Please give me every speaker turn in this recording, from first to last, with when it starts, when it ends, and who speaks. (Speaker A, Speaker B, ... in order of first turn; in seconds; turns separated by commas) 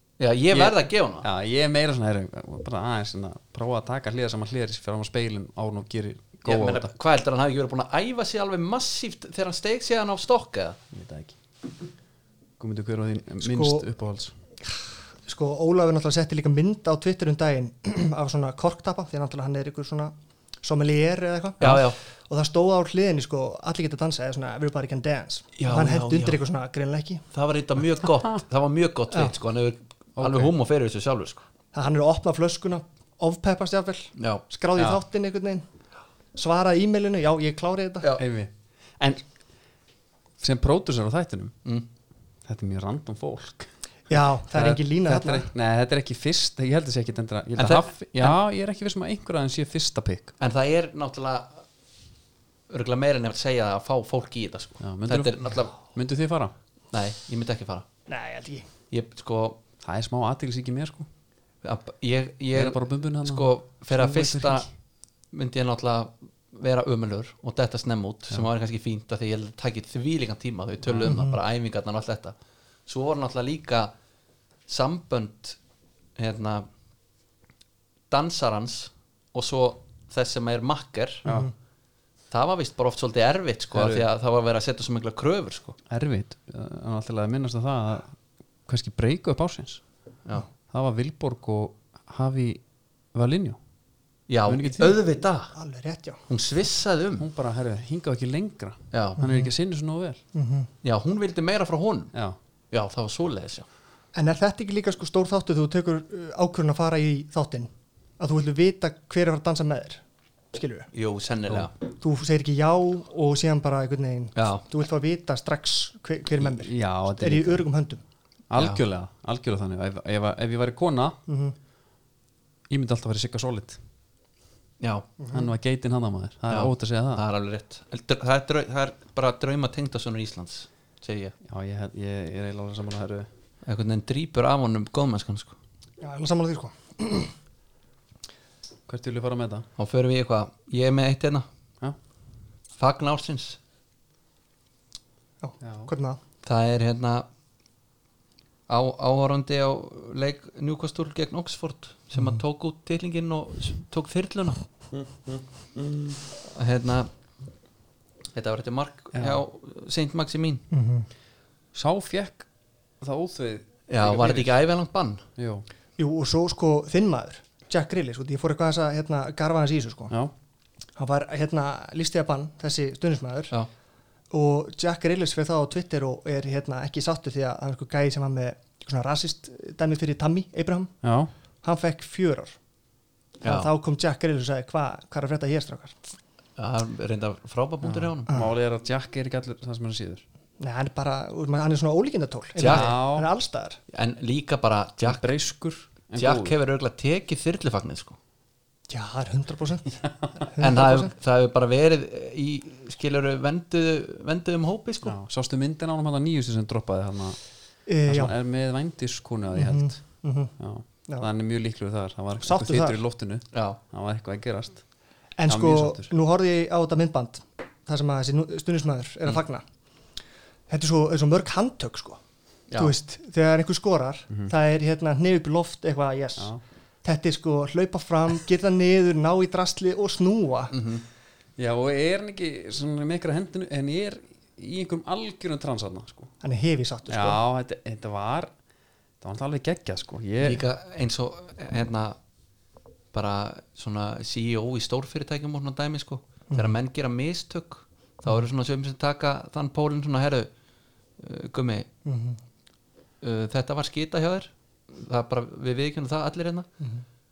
Speaker A: 0.2-1.3, Speaker B: 0.5-6.9, Speaker A: 6.5-10.8, Speaker B: 10.9-11.3, Speaker B: 12.6-14.3, Speaker C: 13.4-13.8, Speaker C: 15.2-27.2, Speaker A: 21.6-22.0, Speaker A: 25.6-26.4, Speaker A: 27.3-31.4, Speaker B: 30.2-30.5, Speaker C: 31.7-35.6, Speaker A: 34.2-35.0, Speaker C: 36.3-38.1, Speaker B: 38.2-39.2, Speaker B: 40.4-41.5, Speaker B: 42.5-50.3, Speaker C: 44.1-45.5, Speaker A: 47.6-48.4, Speaker A: 50.4-51.6, Speaker A: 52.7-55.8, Speaker B: 54.8-56.5, Speaker A: 56.9-57.9, Speaker C: 58.1-58.7, Speaker A: 58.9-59.6, Speaker B: 59.8-61.1, Speaker A: 61.6-64.7, Speaker B: 62.5-64.7, Speaker A: 65.3-72.3, Speaker B: 70.8-71.2, Speaker C: 71.0-71.4, Speaker A: 72.9-73.9, Speaker A: 74.7-75.6, Speaker A: 76.2-76.7, Speaker A: 78.1-81.3, Speaker B: 81.2-81.5, Speaker C: 81.3-81.5, Speaker A: 82.3-85.8, Speaker B: 83.7-84.1, Speaker B: 85.9-88.2, Speaker B: 88.7-89.8, Speaker B: 90.7-92.6, Speaker B: 93.1-93.6, Speaker A: 94.3-95.5, Speaker B: 94.5-95.0, Speaker C: 95.5-96.2, Speaker A: 96.3-97.3, Speaker B: 97.2-100.2, Speaker A: 98.9-99.2, Speaker C: 99.2-99.5, Speaker C: 100.3-100.7, Speaker A: 100.8-102.1, Speaker A: 102.7-103.7, Speaker C: 104.2-110.0, Speaker C: 110.5-110.9, Speaker A: 110.9-111.7, Speaker C: 112.0-118.0, Speaker A: 114.4-114.6, Speaker B: 116.4-117.7, Speaker B: 118.5-121.2, Speaker A: 118.6-118.8, Speaker C: 121.3-121.5, Speaker B: 122.7-123.8, Speaker A: 124.8-125.1, Speaker C: 125.2-125.5, Speaker B: 125.3-127.2, Speaker A: 126.5-131.3, Speaker B: 131.4-133.3, Speaker A: 133.7-135.6, Speaker C: 136.0-137.3, Speaker B: 138.9-139.7, Speaker A: 139.8-141.4, Speaker A: 142.8-143.6, Speaker C: 145.4-146.2, Speaker B: 145.6-145.9, Speaker A: 146.4-147.3, Speaker A: 148.7-154.6, Speaker B: 154.9-156.2, Speaker A: 156.5-157.1, Speaker A: 158.3-160.6, Speaker B: 159.1-159.4, Speaker C: 160.7-161.1, Speaker B: 161.7-162.5, Speaker B: 163.0-164.6, Speaker A: 163.9-165.2, Speaker B: 165.4-165.7, Speaker C: 166.0-170.1, Speaker C: 171.0-173.6, Speaker C: 174.3-180.9, Speaker B: 181.0-181.3, Speaker C: 181.6-182.6, Speaker A: 183.4-183.7, Speaker C: 183.4-186.1, Speaker A: 186.6-188.3, Speaker B: 187.8-190.2, Speaker C: 190.6-193.8, Speaker A: 192.6-192.9, Speaker B: 192.6-193.3, Speaker A: 193.9-195.3, Speaker B: 195.0-196.6, Speaker A: 196.2-198.2, Speaker C: 198.9-201.1, Speaker B: 200.0-200.3, Speaker A: 200.6-205.2, Speaker B: 205.0-207.4, Speaker C: 207.9-208.3, Speaker B: 208.0-214.8, Speaker C: 209.6-210.5, Speaker C: 212.4-213.0, Speaker A: 213.5-213.8, Speaker C: 215.4-219.6, Speaker B: 215.5-216.1, Speaker C: 220.7-222.2, Speaker A: 222.7-222.9, Speaker C: 222.8-230.7, Speaker B: 226.4-226.6, Speaker A: 230.7-231.0, Speaker B: 231.6-236.3, Speaker C: 236.4-237.4, Speaker B: 237.1-238.5, Speaker B: 239.2-240.6, Speaker A: 240.4-242.2, Speaker A: 243.1-250.5, Speaker C: 246.5-246.8, Speaker A: 251.2-251.9, Speaker C: 252.1-252.4, Speaker A: 253.2-256.7